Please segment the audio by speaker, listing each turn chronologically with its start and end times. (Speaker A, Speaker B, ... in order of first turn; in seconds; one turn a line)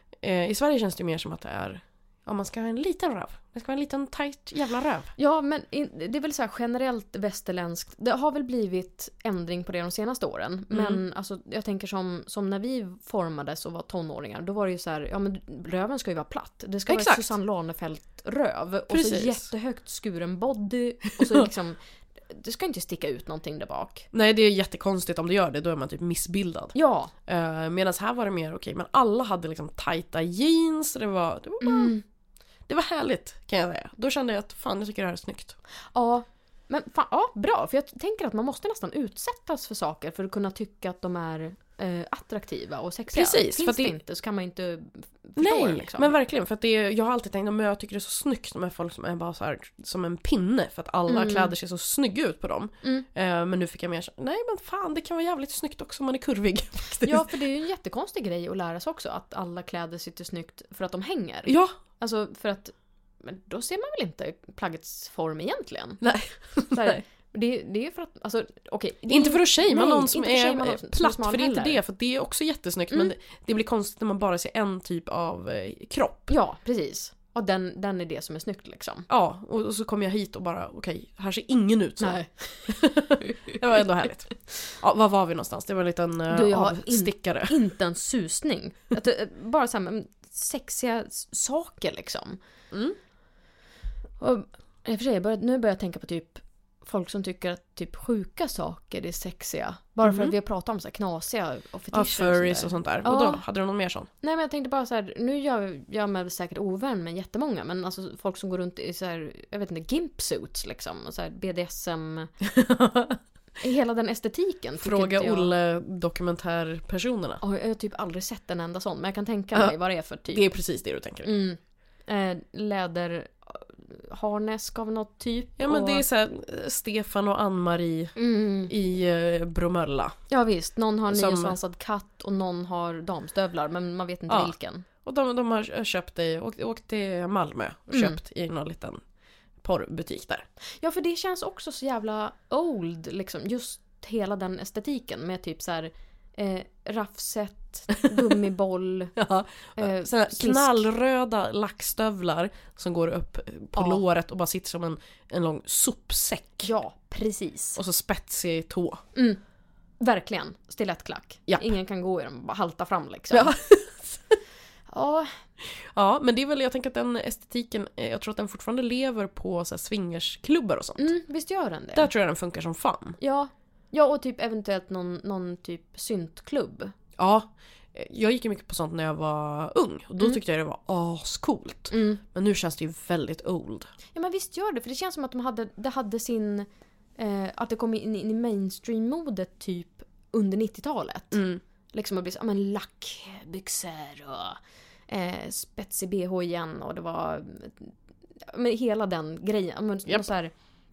Speaker A: 0.2-5.1
Speaker B: 5.2-24.1
Speaker A: 10.7-11.0
Speaker A: 16.9-17.3
Speaker A: 18.9-19.4
Speaker A: 24.1-26.7
Speaker B: 26.7-27.1
Speaker A: 27.3-31.9
Speaker B: 31.6-32.0
Speaker A: 32.7-35.6
Speaker B: 35.9-46.1
Speaker A: 43.1-44.0
Speaker A: 45.4-57.3
Speaker B: 51.1-51.5
Speaker B: 57.0-66.0
Speaker A: 61.5-61.7
Speaker A: 66.0-67.0
Speaker B: 66.7-71.8
Speaker A: 69.1-76.3
Speaker B: 76.3-79.1
Speaker A: 79.1-87.5
Speaker B: 82.0-82.3
Speaker B: 86.3-92.4
Speaker A: 92.7-93.0
Speaker B: 94.2-103.4
Speaker A: 100.0-100.3
Speaker A: 101.9-104.1
Speaker B: 104.2-112.3
Speaker A: 112.4-113.2
Speaker B: 113.6-115.5
Speaker A: 114.8-117.4
Speaker B: 117.4-120.4
Speaker A: 120.3-121.3
Speaker B: 121.2-126.0
Speaker A: 125.6-128.2
Speaker B: 128.2-128.7
Speaker A: 128.7-130.2
Speaker B: 130.3-134.8
Speaker A: 131.1-131.6
Speaker A: 134.3-139.0
Speaker B: 137.9-138.2
Speaker A: 139.6-140.4
Speaker B: 140.8-149.1
Speaker A: 149.2-156.7
Speaker B: 149.8-150.9
Speaker B: 153.7-154.0
Speaker B: 156.6-157.8
Speaker A: 157.8-159.0
Speaker B: 159.1-159.4
Speaker B: 160.0-163.5
Speaker A: 163.3-164.4
Speaker B: 164.9-165.3
Speaker A: 165.6-171.1
Speaker B: 171.0-172.1
Speaker A: 171.9-173.2
Speaker B: 173.2-176.9
Speaker A: 177.2-183.9
Speaker B: 181.9-182.2
Speaker B: 184.1-191.4
Speaker A: 191.3-191.6
Speaker B: 191.9-194.6
Speaker B: 195.1-197.9
Speaker B: 198.5-200.5